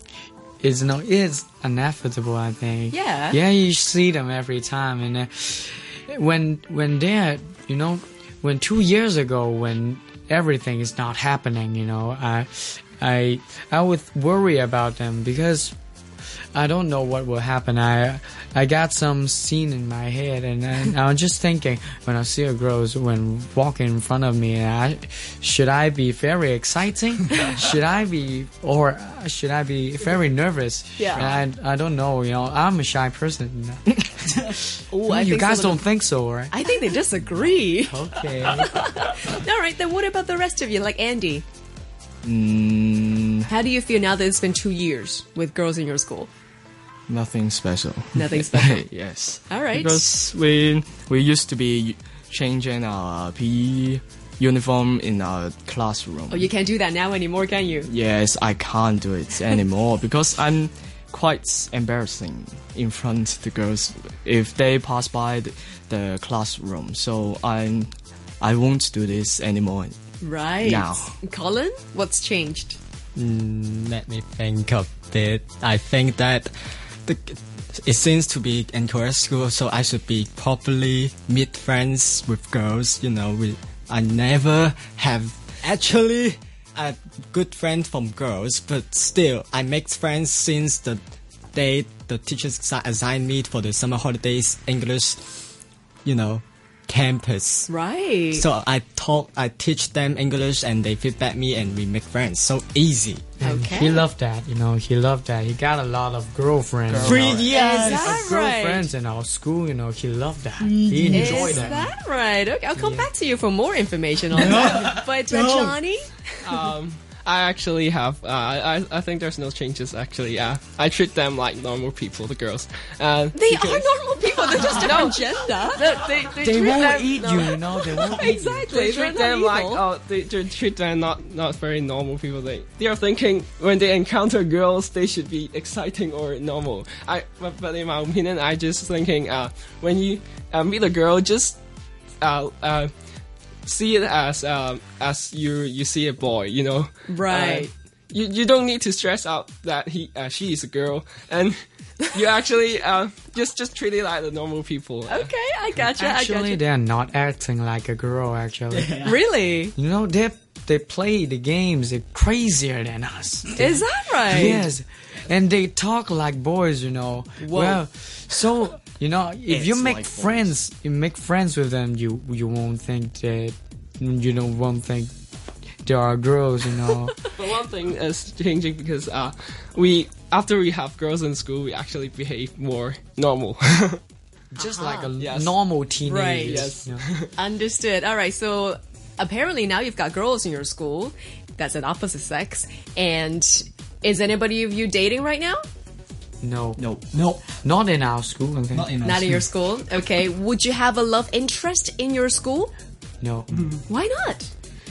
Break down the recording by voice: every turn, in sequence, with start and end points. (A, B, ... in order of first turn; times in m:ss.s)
0:00.6-0:15.8 A
0:02.9-0:03.4 B
0:16.5-0:38.7 A
0:31.0-0:31.4 B
0:34.9-0:35.8 B
0:36.5-0:38.0 B
0:38.5-0:41.4 B
0:42.2-0:43.5 C
0:43.5-0:46.3 B
0:47.1-0:56.5 C
0:48.2-0:48.8 B
0:49.5-0:50.1 B
0:56.3-0:57.9 B
0:57.8-1:09.9 C
1:10.2-1:12.8 B
1:10.6-1:11.1 C
1:13.2-1:16.5 D
1:17.1-1:31.0 D
1:31.5-1:35.2 D
1:36.0-1:37.7 D
1:37.7-1:38.4 B
1:38.3-1:43.3 D
1:43.4-1:44.0 B
1:43.4-1:51.9 A
1:46.9-1:47.7 C
1:47.0-1:48.2 D
1:47.4-1:48.9 B
1:50.6-1:51.6 D
1:51.1-1:56.1 B
1:52.8-1:53.1 A
1:54.3-1:55.8 D
1:56.4-2:03.9 E
2:03.3-2:09.8 B
2:04.5-2:05.3 E
2:06.0-2:21.6 E
2:06.4-2:08.7 A
2:22.2-2:22.9 E
2:23.6-2:35.3 E
2:27.1-2:27.7 B
2:35.1-2:36.6 B
2:35.8-2:39.2 A
2:38.8-2:39.1 D
2:39.0-2:39.7 B
2:39.8-2:55.1 A
2:43.6-2:44.7 B
2:47.4-2:47.8 B
2:49.5-2:50.5 C
2:55.8-2:57.2 A
2:57.3-3:04.0 E
3:04.5-3:07.0 A
3:04.6-3:05.1 B
3:05.2-3:05.5 E
3:06.0-3:06.8 B
3:06.5-3:07.3 E
3:07.4-3:15.6 B
3:16.4-3:16.8 A
3:16.8-3:17.6 C
3:17.6-3:18.9 A
3:18.7-3:19.4 D
3:19.0-3:22.7 B
3:23.2-3:23.6 A
3:23.9-3:24.5 B